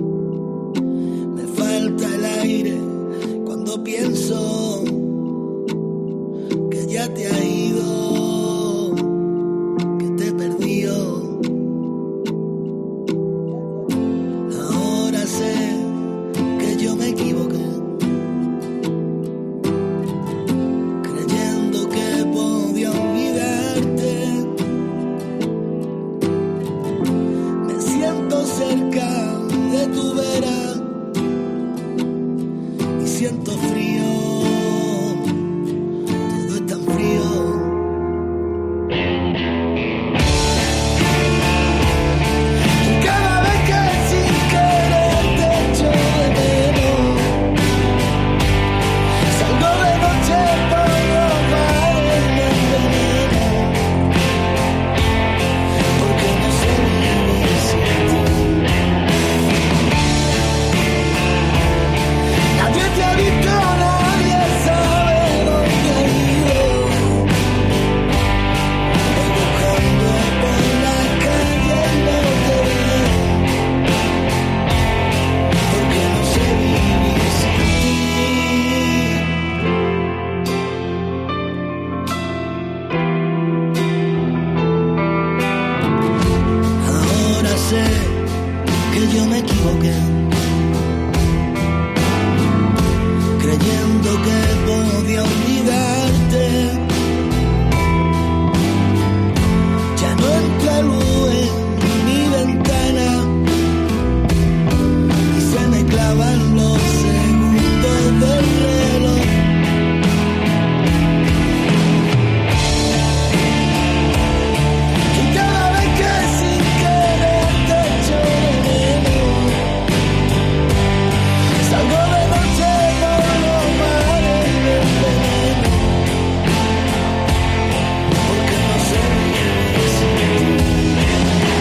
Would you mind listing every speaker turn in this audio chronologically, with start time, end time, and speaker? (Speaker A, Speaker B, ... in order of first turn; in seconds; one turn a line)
Speaker A: 1.3-5.1
Speaker A: 6.7-9.1
Speaker A: 10.0-11.4
Speaker A: 14.5-15.9
Speaker A: 16.6-17.9
Speaker A: 21.0-24.5
Speaker A: 27.6-30.9
Speaker A: 33.0-35.4
Speaker A: 36.3-37.8
Speaker A: 42.8-47.5
Speaker A: 49.3-53.8
Speaker A: 55.9-58.5
Speaker A: 62.5-67.3
Speaker A: 69.1-73.4
Speaker A: 75.7-79.2
Speaker A: 86.8-88.2
Speaker A: 88.9-90.3
Speaker A: 93.4-96.8
Speaker A: 99.9-103.4
Speaker A: 105.3-109.5
Speaker A: 115.1-119.8
Speaker A: 121.6-126.0
Speaker A: 128.2-131.0